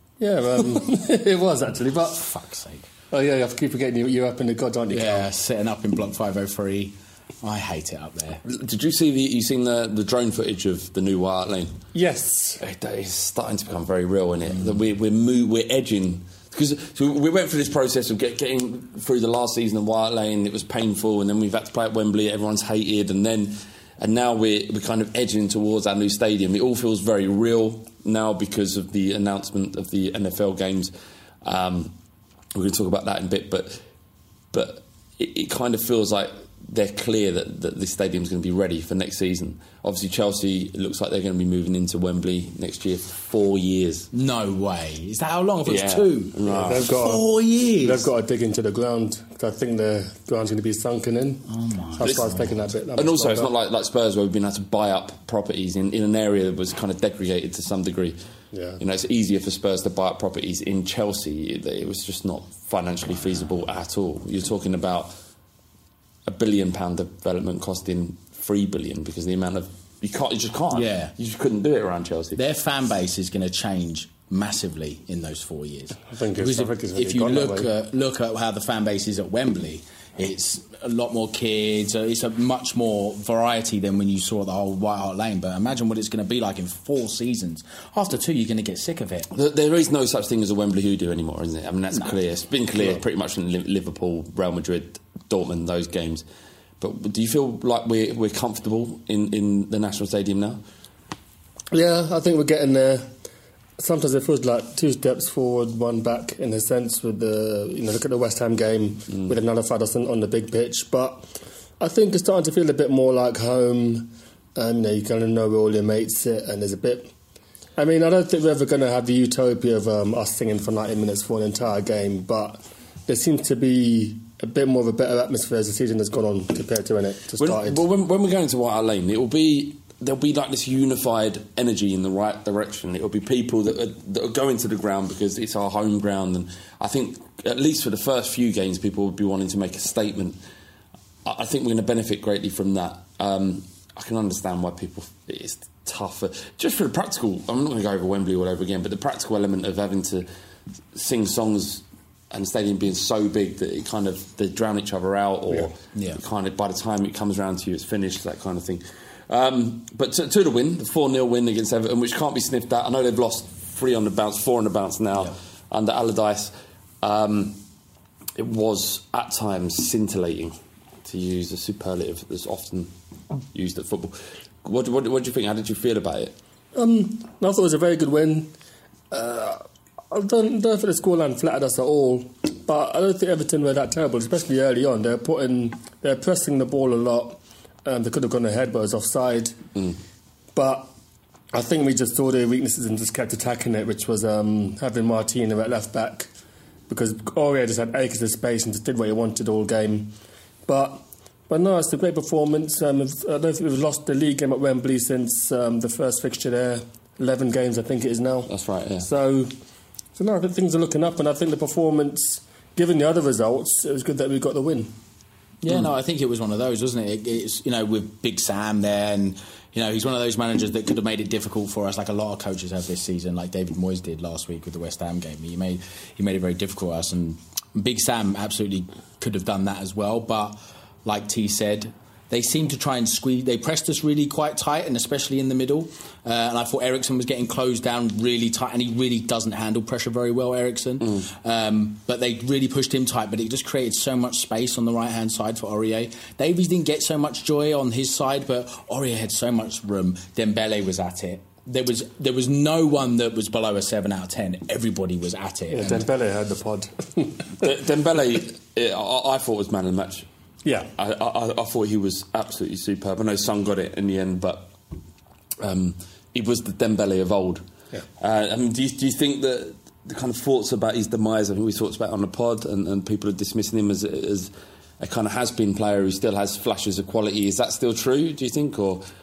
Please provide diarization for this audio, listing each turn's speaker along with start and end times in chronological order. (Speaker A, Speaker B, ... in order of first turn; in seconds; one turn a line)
Speaker A: 0.2-2.2
Speaker B: 2.2-2.9
Speaker A: 3.1-5.3
Speaker B: 4.9-8.4
Speaker C: 8.4-11.7
Speaker A: 11.9-12.6
Speaker C: 12.6-30.9
Speaker C: 31.4-31.9
Speaker C: 32.5-33.8
Speaker C: 34.5-44.1
Speaker B: 44.1-48.1
Speaker C: 45.7-46.9
Speaker A: 46.5-47.3
Speaker A: 47.8-51.4
Speaker B: 51.5-52.6
Speaker A: 52.0-53.5
Speaker C: 52.0-52.3
Speaker C: 53.0-58.2
Speaker A: 58.5-58.8
Speaker C: 58.8-65.2
Speaker C: 66.3-72.4
Speaker B: 70.7-71.1
Speaker B: 72.4-89.3
Speaker A: 76.1-77.7
Speaker C: 89.3-96.2
Speaker C: 96.8-100.6
Speaker A: 101.7-103.1
Speaker A: 103.8-111.3
Speaker A: 111.8-117.1
Speaker A: 117.8-127.8
Speaker C: 127.4-140.4
Speaker C: 141.2-150.3
Speaker C: 150.9-167.6
Speaker B: 155.9-156.2
Speaker C: 168.4-172.9
Speaker C: 173.5-176.3
Speaker A: 176.8-178.5
Speaker A: 179.1-189.6
Speaker A: 190.6-190.9
Speaker A: 191.5-196.3
Speaker A: 196.9-200.1
Speaker A: 200.7-209.5
Speaker C: 208.5-209.1
Speaker A: 210.2-214.9
Speaker B: 215.6-256.1
Speaker A: 255.7-257.5
Speaker C: 257.6-260.3
Speaker A: 260.6-260.9
Speaker C: 261.0-264.7
Speaker C: 265.6-267.6
Speaker C: 268.2-279.0